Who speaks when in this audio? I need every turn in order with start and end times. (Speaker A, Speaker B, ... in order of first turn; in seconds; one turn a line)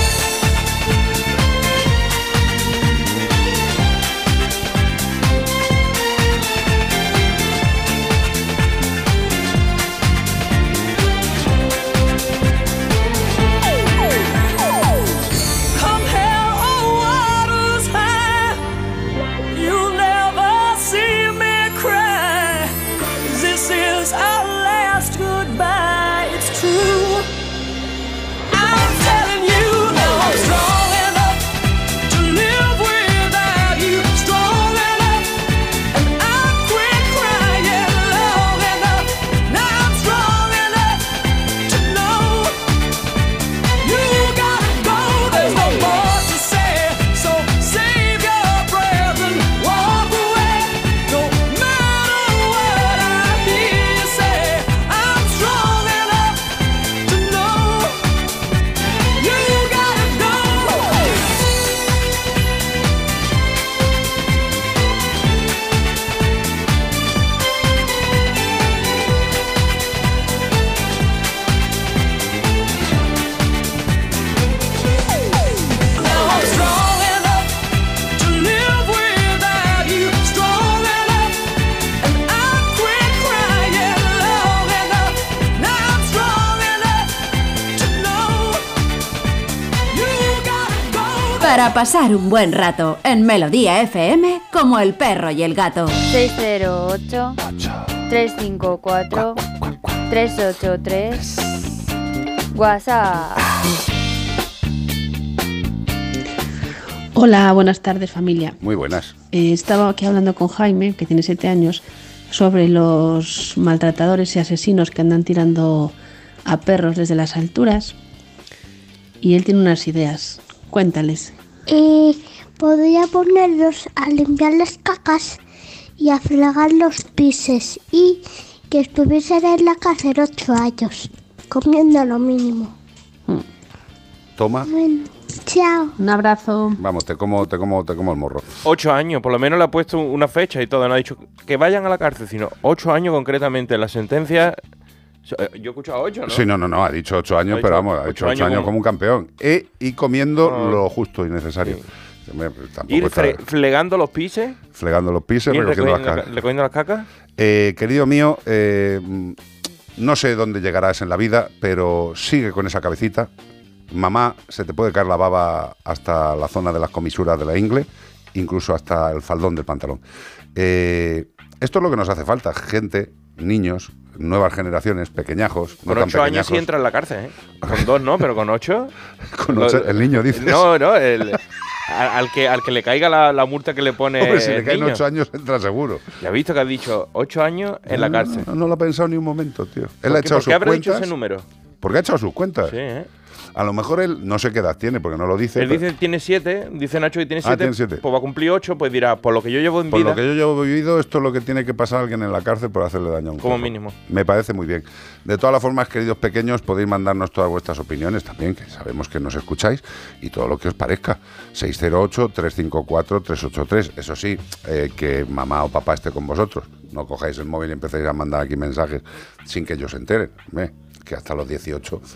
Speaker A: 91.4-95.9
Speaker B: 96.0-97.4
Speaker B: 98.1-99.5
Speaker B: 100.1-101.7
Speaker B: 102.5-103.5
Speaker C: 107.2-108.6
Speaker D: 108.6-109.2
Speaker C: 109.3-115.9
Speaker C: 116.5-118.0
Speaker C: 119.2-121.3
Speaker E: 121.7-125.4
Speaker E: 126.0-132.7
Speaker D: 134.4-134.7
Speaker E: 134.7-135.9
Speaker C: 136.0-136.8
Speaker D: 136.8-138.4
Speaker F: 138.6-144.6
Speaker F: 145.3-146.5
Speaker D: 146.3-153.4
Speaker F: 147.5-148.7
Speaker F: 150.4-150.8
Speaker F: 152.9-154.6
Speaker D: 154.7-156.4
Speaker F: 155.5-157.1
Speaker D: 157.4-159.4
Speaker D: 160.0-163.3
Speaker D: 163.9-170.0
Speaker D: 170.6-176.7
Speaker F: 175.9-178.9
Speaker D: 177.6-177.9
Speaker D: 179.3-180.7
Speaker F: 179.5-185.0
Speaker D: 184.2-186.1
Speaker F: 186.2-188.5
Speaker D: 187.9-191.1
Speaker F: 190.1-191.4
Speaker D: 191.8-192.8
Speaker F: 192.7-193.1
Speaker D: 193.6-195.8
Speaker F: 195.6-200.2
Speaker D: 197.4-198.0
Speaker D: 199.9-222.0
Speaker F: 203.4-203.9